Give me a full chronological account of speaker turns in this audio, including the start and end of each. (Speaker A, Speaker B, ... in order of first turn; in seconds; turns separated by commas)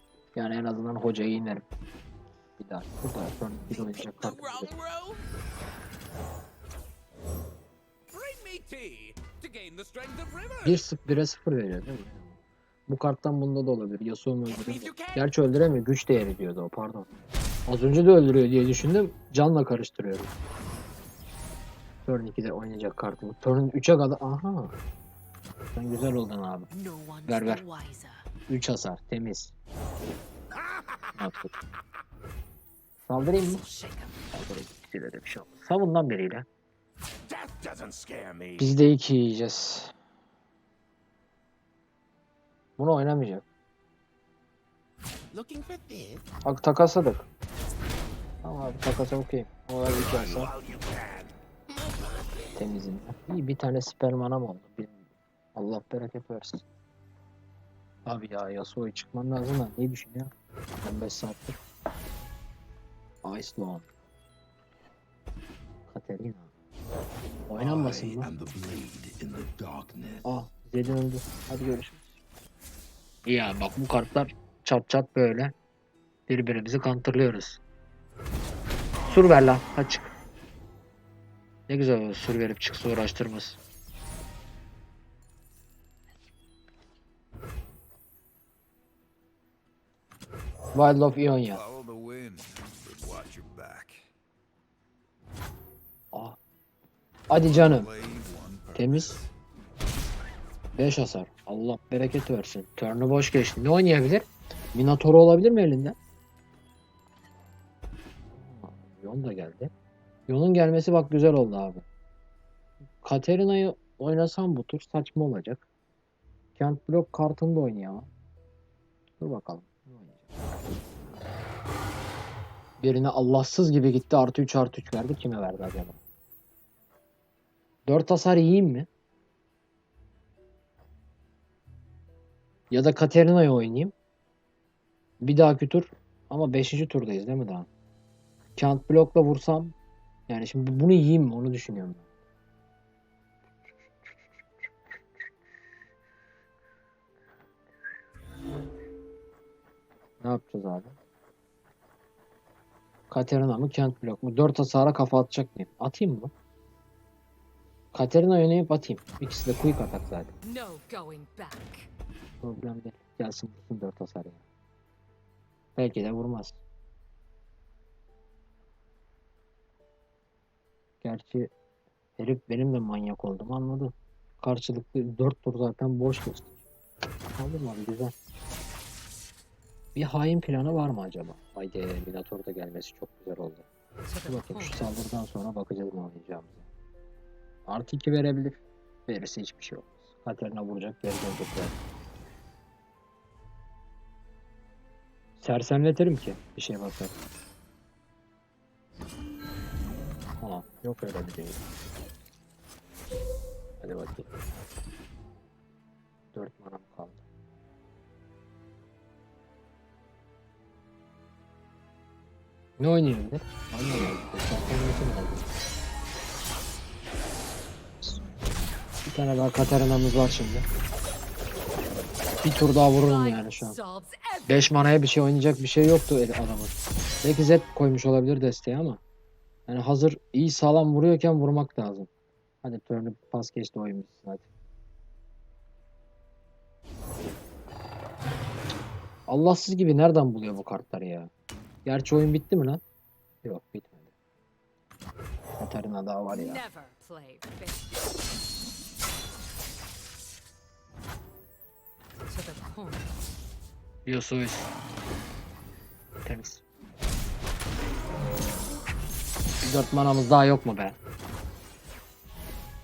Speaker A: 0.3-1.7, Speaker A: 2.6-4.7, Speaker B: 3.7-5.2, Speaker B: 8.1-10.8, Speaker A: 10.6-12.3, Speaker A: 12.9-17.1, Speaker B: 14.5-15.2, Speaker A: 17.7-20.3, Speaker A: 22.1-24.8, Speaker A: 25.7-26.7, Speaker B: 26.7-28.3, Speaker A: 27.3-27.6, Speaker A: 28.5-29.5, Speaker A: 31.2-31.5, Speaker A: 33.0-33.6, Speaker B: 33.4-34.3, Speaker A: 34.3-36.5, Speaker B: 37.3-38.7, Speaker A: 38.6-39.9, Speaker A: 42.8-43.5, Speaker B: 45.3-46.2, Speaker A: 46.4-47.3, Speaker A: 48.4-50.5, Speaker B: 50.0-52.6, Speaker A: 52.5-55.0, Speaker A: 55.6-56.6, Speaker A: 58.0-60.3, Speaker A: 60.8-61.6, Speaker A: 63.2-63.9, Speaker A: 65.9-66.5, Speaker A: 67.5-68.3, Speaker C: 67.5-70.4, Speaker A: 70.2-72.2, Speaker A: 73.3-75.5, Speaker A: 76.3-77.6, Speaker A: 79.1-80.1, Speaker A: 81.7-83.6, Speaker A: 90.7-91.6, Speaker C: 91.5-94.1, Speaker A: 96.1-96.4, Speaker A: 97.3-97.9, Speaker C: 97.3-99.3, Speaker A: 98.7-99.2, Speaker A: 100.8-106.0, Speaker A: 108.3-109.7, Speaker A: 110.3-111.8, Speaker A: 113.0-115.6, Speaker A: 116.6-118.1, Speaker A: 119.2-120.3, Speaker A: 122.8-126.0, Speaker A: 127.9-128.9, Speaker A: 132.7-133.9, Speaker A: 135.2-137.7, Speaker A: 138.6-139.8, Speaker A: 140.3-142.1, Speaker A: 150.2-151.0, Speaker A: 153.1-156.3, Speaker A: 157.9-160.3, Speaker D: 160.4-161.9, Speaker A: 162.4-164.4, Speaker A: 165.8-166.6, Speaker A: 171.0-171.5, Speaker A: 172.2-176.5, Speaker A: 177.4-178.1, Speaker A: 179.9-183.7, Speaker D: 184.1-184.9, Speaker A: 184.3-186.7, Speaker A: 187.7-191.8, Speaker A: 195.4-197.2, Speaker A: 200.4-201.6, Speaker A: 203.8-204.3, Speaker A: 206.3-207.2, Speaker A: 212.8-215.5, Speaker A: 219.1-220.7, Speaker A: 222.4-223.8, Speaker D: 222.9-224.8, Speaker A: 224.5-229.0, Speaker A: 229.7-232.1, Speaker A: 232.6-234.4, Speaker A: 239.3-241.3, Speaker A: 241.8-242.8, Speaker A: 243.4-244.1, Speaker A: 245.6-246.6, Speaker D: 246.3-247.9, Speaker D: 252.3-253.1, Speaker A: 254.1-254.7, Speaker A: 256.2-256.6, Speaker A: 259.6-261.0